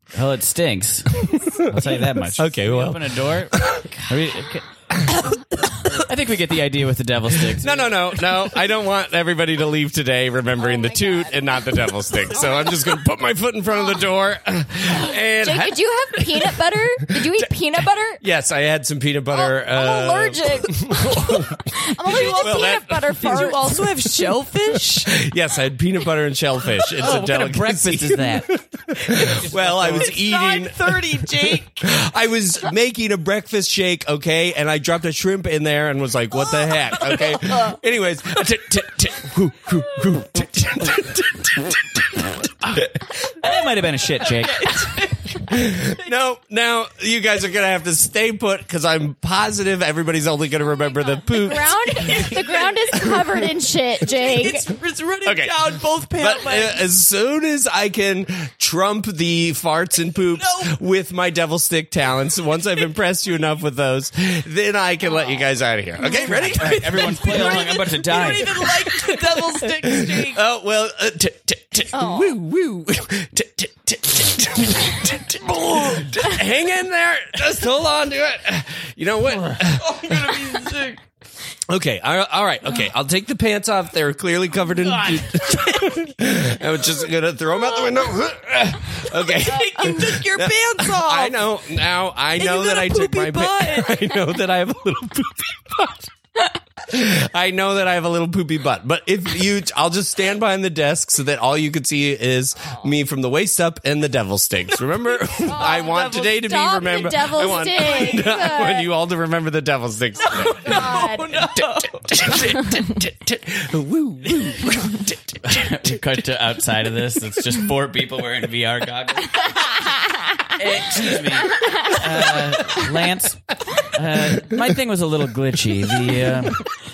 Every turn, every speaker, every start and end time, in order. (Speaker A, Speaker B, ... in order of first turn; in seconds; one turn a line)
Speaker A: 0.1-4.7
Speaker B: 1.7-3.9
Speaker A: 5.9-8.0
Speaker B: 7.5-23.5
Speaker C: 10.6-12.8
Speaker C: 15.1-18.2
Speaker C: 19.3-23.7
Speaker D: 22.0-22.6
Speaker E: 22.5-25.1
Speaker D: 23.2-24.3
Speaker B: 25.1-42.2
Speaker A: 27.0-28.6
Speaker A: 29.2-30.2
Speaker D: 29.9-31.8
Speaker E: 30.5-30.9
Speaker D: 36.7-37.8
Speaker A: 42.6-45.0
Speaker D: 44.4-46.1
Speaker B: 45.5-52.1
Speaker C: 51.2-54.7
Speaker D: 52.0-53.2
Speaker D: 54.1-56.7
Speaker B: 55.2-67.3
Speaker E: 55.8-56.5
Speaker D: 60.4-60.8
Speaker D: 66.2-70.4
Speaker A: 66.3-68.6
Speaker E: 68.1-70.4
Speaker B: 70.1-80.6
Speaker C: 71.9-72.4
Speaker D: 79.8-81.0
Speaker B: 81.7-96.1
Speaker D: 89.1-91.5
Speaker D: 92.4-94.1
Speaker B: 96.8-116.0
Speaker D: 105.2-106.2
Speaker C: 105.5-108.9
Speaker D: 107.8-108.3
Speaker D: 110.2-112.6
Speaker C: 110.7-111.3
Speaker A: 115.5-119.5
Speaker A: 120.5-126.7